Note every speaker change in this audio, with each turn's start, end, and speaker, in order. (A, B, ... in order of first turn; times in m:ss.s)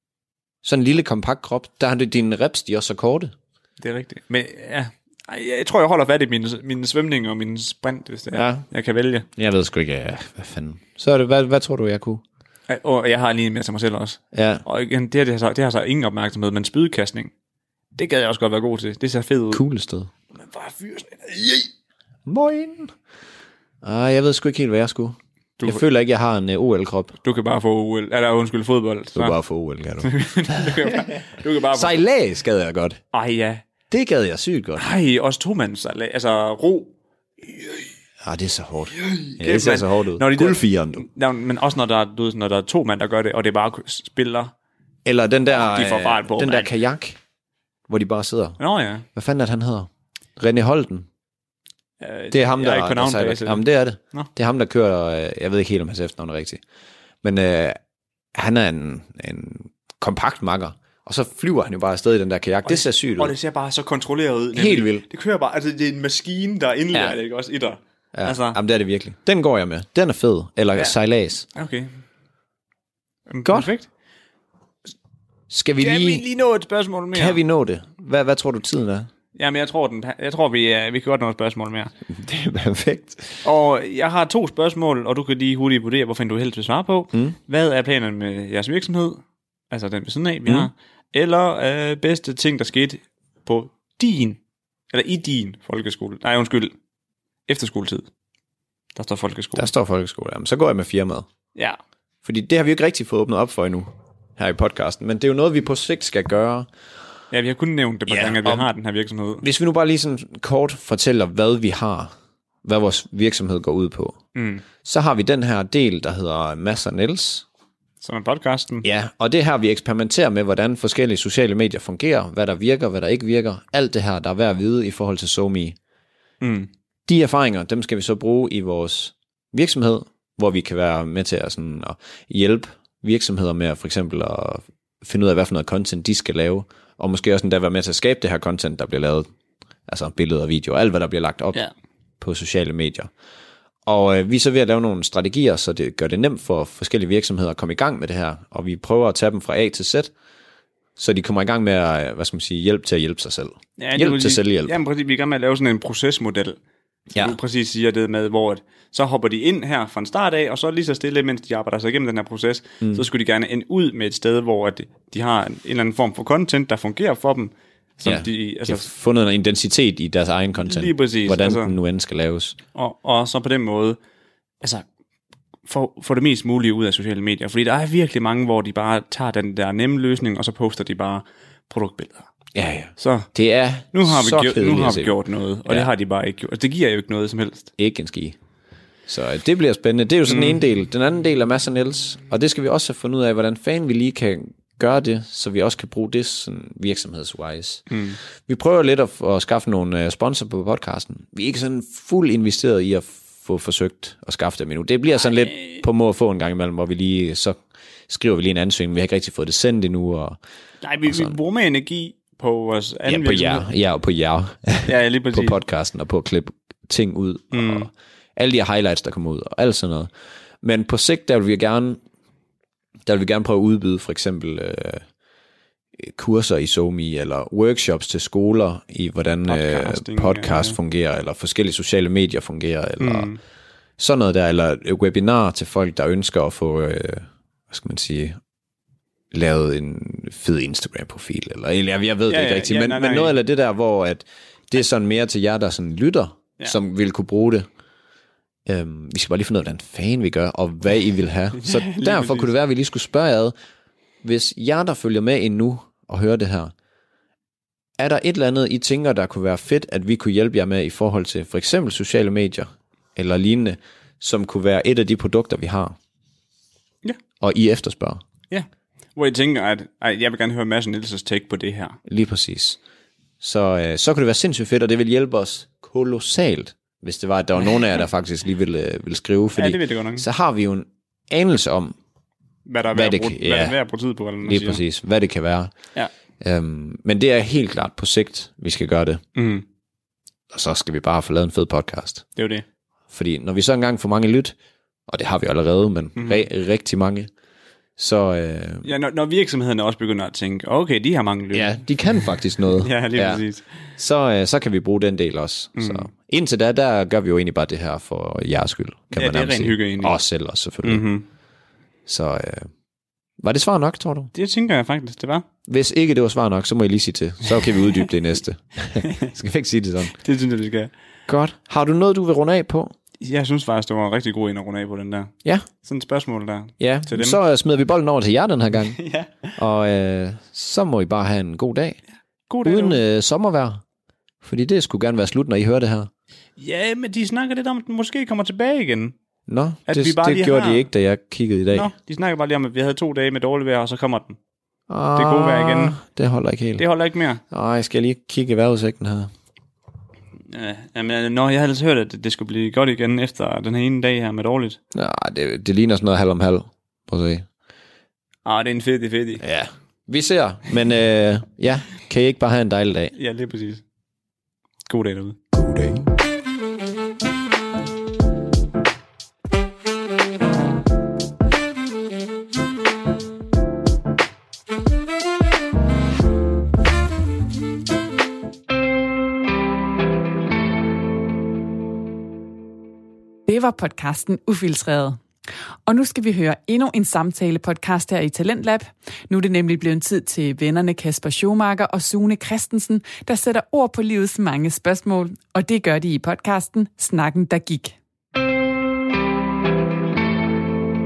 0:00.6-0:03.3 A
0:03.8-0:09.2 B
0:08.3-0:08.7 A
0:09.3-0:12.2 A
0:12.7-0:17.3 B
0:14.3-0:14.6 A
0:18.0-0:19.6 B
0:19.5-0:20.1 A
0:20.3-0:21.7 B
0:22.2-0:22.9 A
0:23.8-0:27.2 A
0:25.6-0:25.8 B
0:27.2-0:29.4 B
0:29.2-0:30.9 A
0:30.0-0:32.0 B
0:31.7-0:33.0 A
0:33.1-0:33.6 B
0:33.9-0:34.8 A
0:34.8-0:37.9 B
0:38.2-0:41.1 A
0:39.0-0:44.5 B
0:45.0-0:47.2 A
0:45.5-0:46.7 B
0:47.9-0:51.1 A
0:48.6-0:49.0 B
0:52.0-0:53.6 B
0:52.3-0:56.6 A
0:57.2-0:57.8 A
0:58.3-1:03.3 A
1:02.6-1:08.6 B
1:04.5-1:05.0 A
1:08.1-1:11.5 A
1:11.5-1:11.9 B
1:13.3-1:13.9 B
1:13.4-1:13.7 A
1:15.5-1:16.2 A
1:15.8-1:17.4 B
1:17.1-1:19.1 A
1:19.3-1:21.9 B
1:22.1-1:23.4 A
1:23.4-1:34.4 B
1:34.9-1:36.8 B
1:37.5-1:38.1 B
1:39.0-1:39.7 B
1:39.6-1:41.3 A
1:42.2-1:46.7 A
1:47.3-1:49.4 B
1:48.1-1:48.7 A
1:49.4-1:52.1 A
1:52.6-1:54.2 A
1:54.3-1:54.6 B
1:54.8-1:57.4 A
1:58.0-1:58.8 B
1:58.8-2:05.8 A
2:06.4-2:06.7 B
2:07.1-2:19.3 A
2:19.9-2:21.6 A
2:22.2-2:23.1 A
2:23.8-2:30.1 A
2:31.0-2:34.7 A
2:33.8-2:36.6 B
2:37.1-2:48.9 B
2:48.0-2:52.6 A
2:50.6-2:51.7 B
2:52.7-2:54.0 B
2:54.6-2:54.9 B
2:55.6-3:02.3 B
3:02.6-3:05.2 A
3:03.0-3:07.7 B
3:07.8-3:08.4 A
3:09.1-3:30.4 A
3:10.3-3:10.6 B
3:17.9-3:18.2 B
3:25.2-3:25.8 B
3:30.8-3:33.7 B
3:31.0-3:31.4 A
3:33.1-3:40.1 A
3:34.8-3:35.6 B
3:37.5-3:37.9 B
3:40.6-3:42.0 A
3:43.1-3:45.1 A
3:46.0-3:53.4 A
3:49.5-3:50.8 B
3:53.0-3:53.4 B
3:54.0-3:58.4 A
3:59.3-4:07.7 A
4:02.3-4:03.3 B
4:08.7-4:13.5 A
4:11.6-4:12.5 B
4:14.2-4:16.7 A
4:18.0-4:26.0 A
4:27.4-4:28.2 A
4:28.5-4:32.0 B
4:32.1-4:32.8 A
4:33.4-4:42.0 A
4:39.6-4:40.2 B
4:42.7-4:44.8 B
4:42.9-4:43.8 A
4:44.4-4:49.2 A
4:49.4-4:49.6 B
4:50.5-4:52.3 A
4:52.4-4:52.6 B
4:53.1-4:54.6 A
4:55.1-4:57.3 A
4:56.2-4:56.4 B
4:58.0-4:58.9 A
4:58.8-5:03.9 B
5:01.5-5:11.1 A
5:05.8-5:06.1 B
5:09.1-5:11.2 B
5:12.1-5:12.7 A
5:13.4-5:14.3 A
5:14.3-5:15.4 B
5:15.7-5:20.2 A
5:20.2-5:20.9 B
5:21.3-5:22.9 A
5:23.2-5:27.4 B
5:26.8-5:32.0 A
5:29.0-5:29.5 B
5:32.5-5:33.0 B
5:32.6-5:33.8 A
5:34.4-5:36.1 A
5:36.6-5:39.1 B
5:39.5-5:41.9 A
5:39.9-5:40.9 B
5:41.7-5:44.4 B
5:44.9-5:46.9 A
5:45.1-5:46.0 B
5:46.8-5:47.4 B
5:47.5-5:49.3 A
5:50.5-5:54.8 B
5:54.9-5:57.5 A
5:58.4-5:59.4 B
5:59.4-6:03.1 A
6:03.2-6:03.8 B
6:04.8-6:05.4 B
6:05.5-6:06.1 A
6:23.4-6:25.2 C
6:25.8-6:38.0 C